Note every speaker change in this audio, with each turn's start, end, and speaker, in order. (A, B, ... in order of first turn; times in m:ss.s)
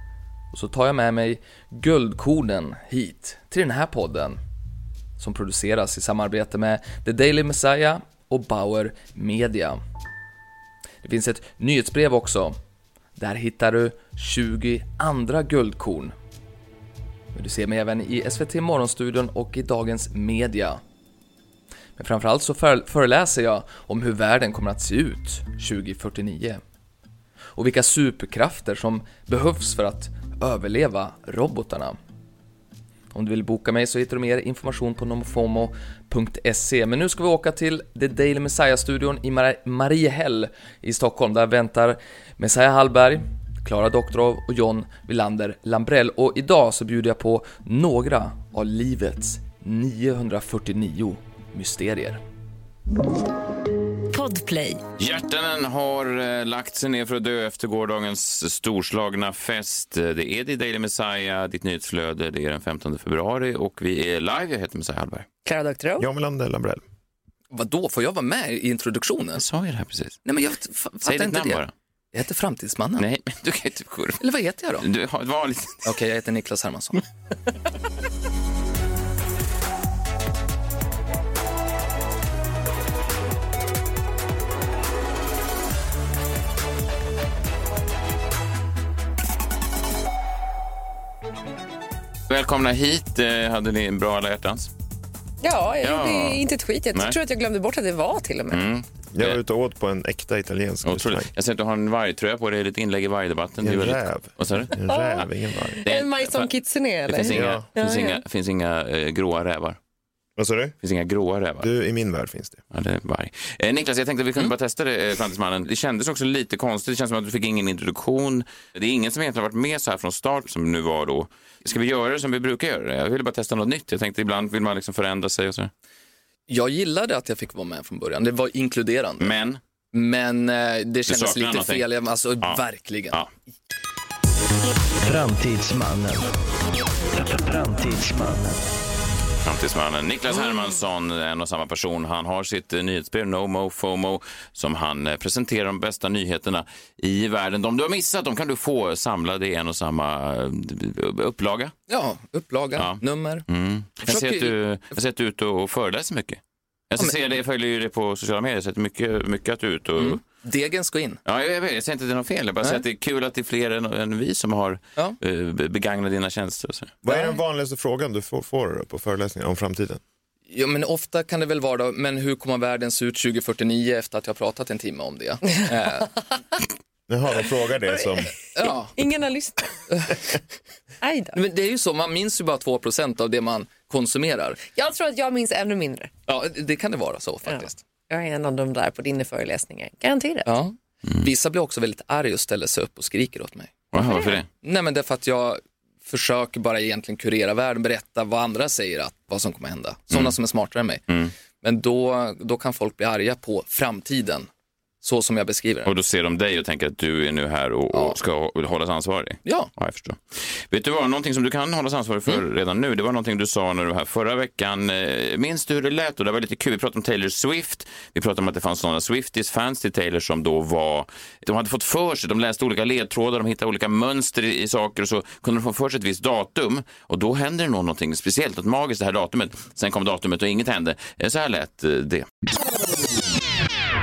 0:00.5-0:04.4 A
0:05.2-0:09.8 A
0:11.0-0:12.6 A
0:13.2-0:16.1 A
0:17.3-0:20.8 A
0:22.0-0:26.6 A
0:27.6-0:32.0 A
0:33.1-0:52.2 A
0:54.1-0:54.8 B
0:55.0-1:05.3 C
1:05.4-1:06.1 B
1:06.0-1:06.8 D
1:07.5-1:09.4 A
1:09.4-1:10.2 C
1:10.2-1:13.0 A
1:11.0-1:11.7 C
1:13.0-1:14.2 C
1:14.2-1:14.8 A
1:14.8-1:15.9 C
1:15.8-1:17.0 A
1:32.3-1:34.7 C
1:35.4-1:38.6 B
1:35.8-1:36.4 C
1:38.5-1:39.4 C
1:39.1-1:41.3 D
1:40.8-1:44.8 C
1:43.6-1:45.8 D
1:44.8-1:48.2 B
1:45.8-1:46.5 C
1:47.1-1:49.8 C
1:47.3-1:47.7 D
1:50.4-1:50.7 D
1:50.8-1:51.7 C
1:51.6-1:52.6 D
1:52.7-2:05.7 C
2:06.5-2:09.3 A
2:09.2-2:09.6 C
2:09.9-2:13.2 A
2:11.1-2:11.8 C
2:12.4-2:13.3 C
2:15.0-2:16.3 E
2:17.1-2:18.7 E
2:19.4-2:31.7 C
2:31.9-2:33.4 A
2:32.8-2:40.2 C
2:34.0-2:34.6 A
2:40.0-2:41.2 A
2:41.2-2:47.0 C
2:47.0-2:50.0 D
2:50.5-2:56.1 A
2:57.1-2:58.3 D
2:58.5-2:58.9 A
2:58.6-2:59.8 B
2:59.9-3:00.2 A
3:01.0-3:01.4 B
3:01.3-3:04.6 A
3:04.7-3:06.1 B
3:06.3-3:07.8 A
3:07.5-3:10.5 B
3:10.4-3:13.8 A
3:13.9-3:14.5 C
3:14.0-3:14.4 B
3:14.6-3:21.0 A
3:21.6-3:24.5 A
3:25.0-3:25.9 A
3:25.8-3:52.3 C
3:27.9-3:28.2 A
3:29.4-3:29.7 A